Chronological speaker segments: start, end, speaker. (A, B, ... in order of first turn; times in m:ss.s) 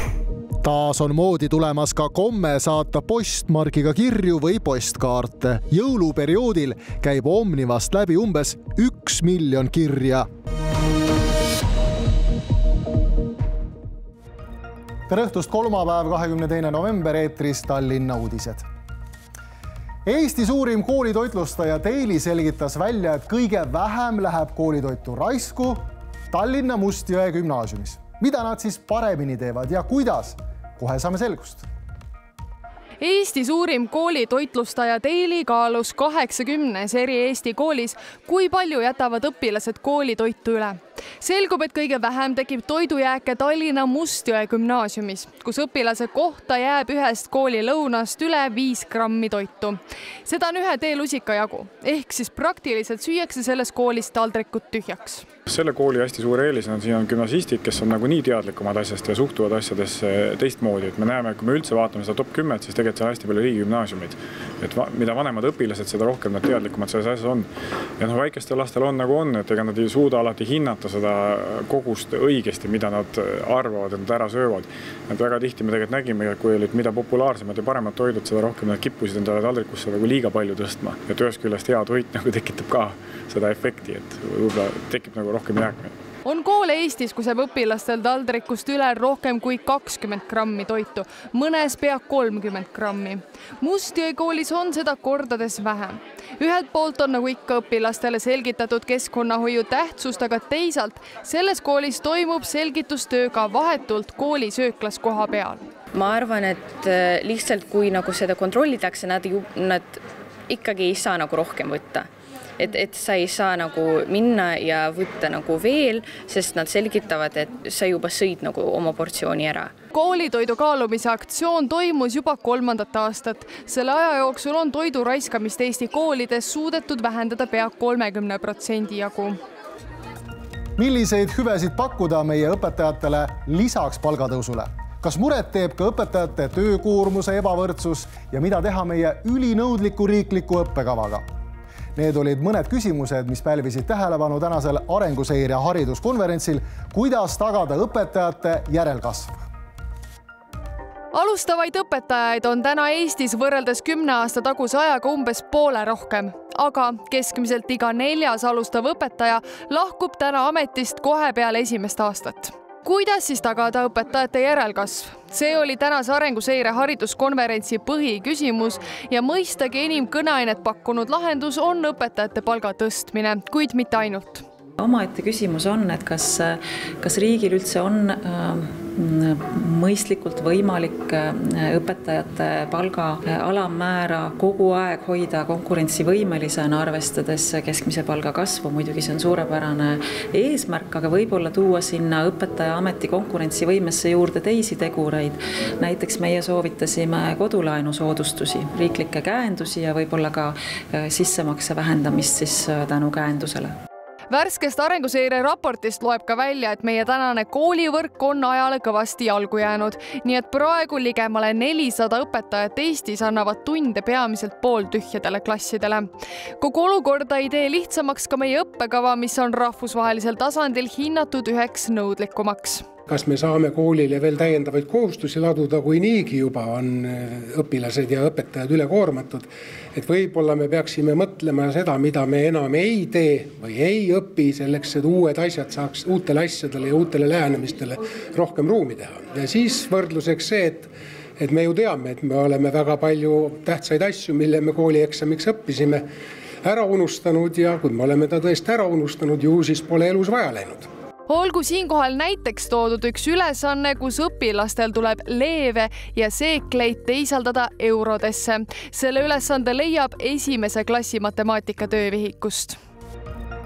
0:00.6-0:10.3 A
0:15.1-0:18.7 A
0:20.0-0:31.7 A
0:33.0-0:55.3 B
0:55.5-1:07.5 C
1:08.0-1:25.9 C
1:26.3-1:45.6 B
1:45.9-1:52.1 D
1:52.6-1:59.7 D
1:59.9-2:09.4 B
2:10.8-2:21.3 A
2:22.0-2:29.4 A
2:31.1-2:54.4 B
2:54.8-3:23.7 E
3:24.3-3:42.9 B
3:43.1-4:06.0 F
4:06.6-4:10.9 F
4:11.3-4:22.8 B